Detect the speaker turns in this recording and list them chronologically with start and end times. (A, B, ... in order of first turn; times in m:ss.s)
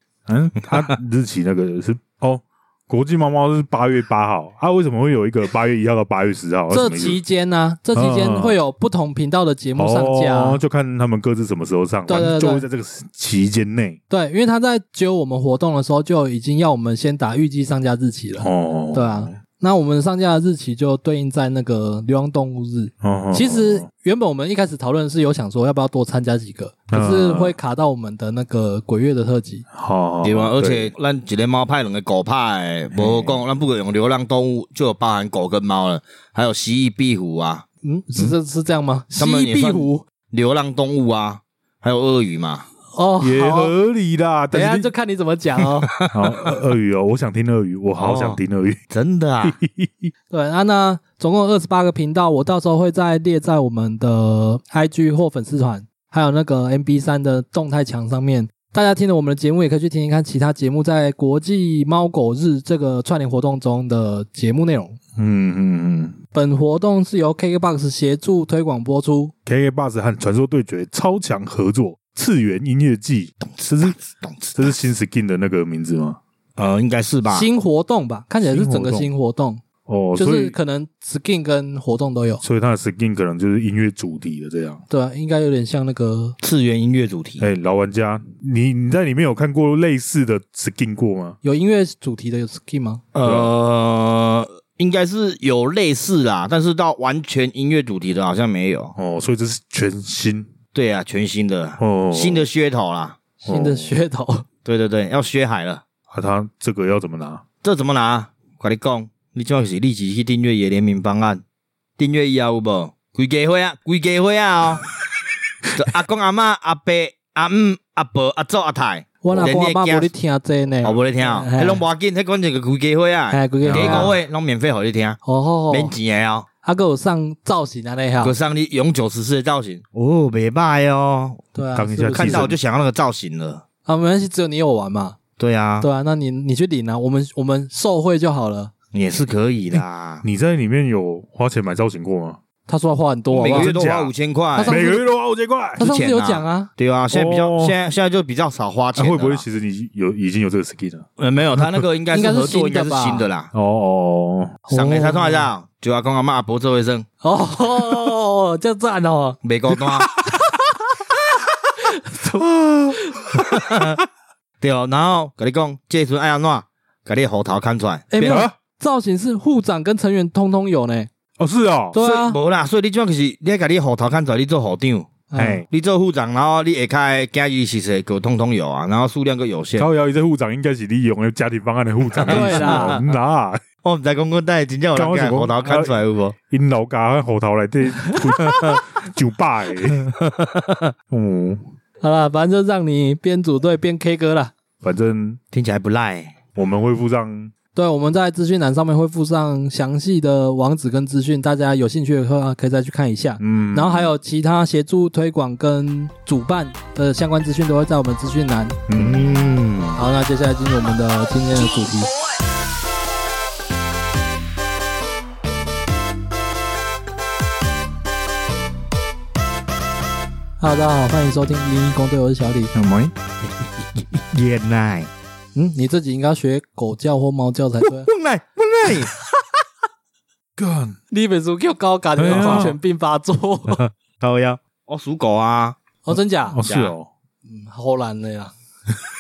0:00.3-0:07.2 A
0:00.6-0:01.0 B
0:06.7-0:10.6 C
0:08.0-0:08.6 A
0:09.8-0:14.0 A
0:12.1-0:12.7 C
0:14.1-0:29.7 C
0:18.4-0:19.4 A
0:23.0-0:23.9 A
0:26.9-0:27.6 A
0:29.7-0:30.9 A
0:30.2-0:37.7 B
0:32.9-0:33.4 A
0:37.8-0:40.0 C
0:39.2-0:42.7 B
0:42.9-0:43.7 C
0:43.2-0:44.9 A
0:44.5-0:45.9 C
0:45.9-0:46.6 B
0:46.1-0:48.8 A
0:48.0-0:48.4 B
0:48.9-0:49.6 B
0:49.4-0:50.1 A
0:50.3-1:05.0 C
1:05.2-1:06.2 A
1:06.3-1:09.3 C
1:09.5-1:14.0 A
1:13.4-1:14.7 B
1:14.6-1:16.2 A
1:16.6-1:17.5 B
1:17.3-1:19.6 C
1:18.4-1:19.1 A
1:19.9-1:20.6 A
1:20.2-1:22.4 C
1:22.4-1:24.8 A
1:24.9-1:26.4 C
1:26.4-1:27.4 B
1:27.4-1:31.4 A
1:31.4-1:33.0 C
1:33.1-1:38.9 B
1:33.2-1:33.5 A
1:39.0-1:40.5 A
1:40.7-1:43.2 B
1:41.8-1:42.5 A
1:43.4-1:43.9 A
1:43.5-1:44.5 C
1:44.6-1:45.8 B
1:46.1-1:47.4 A
1:47.6-1:51.4 B
1:52.0-1:54.9 B
1:55.7-2:00.1 B
1:59.2-2:01.8 C
2:00.8-2:06.5 B
2:03.3-2:04.1 C
2:03.6-2:04.2 A
2:05.2-2:05.9 C
2:06.6-2:08.3 C
2:08.2-2:11.5 B
2:11.6-2:12.5 C
2:11.7-2:12.6 A
2:12.2-2:13.6 B
2:13.9-2:15.2 C
2:15.4-2:15.9 B
2:15.8-2:18.7 C
2:18.9-2:20.2 B
2:19.7-2:22.4 A
2:22.7-2:23.7 C
2:23.3-2:24.8 B
2:23.4-2:24.1 A
2:24.6-2:25.0 C
2:24.7-2:25.8 A
2:25.8-2:26.7 C
2:25.8-2:29.4 B
2:27.1-2:27.8 A
2:29.0-2:31.1 A
2:31.2-2:33.5 B
2:31.6-2:31.8 A
2:32.1-2:33.3 C
2:33.5-2:34.6 A
2:34.7-2:35.5 C
2:34.7-2:37.1 B
2:37.2-2:39.4 C
2:39.4-2:40.1 B
2:40.0-2:40.4 A
2:40.3-2:41.2 C
2:41.8-2:43.4 C
2:42.4-2:43.4 A
2:43.5-2:44.0 B
2:44.6-2:48.4 B
2:48.1-2:51.1 C
2:48.2-2:48.6 A
2:51.4-2:52.0 A
2:51.9-2:52.4 C
2:52.0-2:59.9 B
2:55.3-2:55.6 C
2:55.4-2:55.6 A
2:59.8-3:03.6 A
3:02.2-3:03.0 B
3:02.3-3:03.0 C
3:03.8-3:06.4 B
3:04.9-3:10.1 A
3:08.5-3:08.8 B
3:10.2-3:10.9 B
3:11.1-3:11.6 A
3:12.0-3:14.5 C
3:14.8-3:15.4 A
3:15.5-3:16.4 B
3:16.6-3:17.5 A
3:17.7-3:28.8 C
3:23.4-3:24.1 A
3:28.9-3:29.6 A
3:28.9-3:30.0 B
3:30.0-3:32.1 C
3:40.6-3:42.7 C
3:42.7-3:43.1 A
3:44.0-3:45.1 B
3:45.6-3:48.1 C
3:47.8-3:49.2 B
3:50.6-3:51.0 A
3:51.1-3:53.8 C
3:52.2-3:52.8 A
3:52.3-3:52.7 B
3:54.2-3:55.8 B
3:56.0-3:56.6 C
3:56.4-3:57.1 A
3:56.6-3:56.9 B
3:57.5-3:58.5 C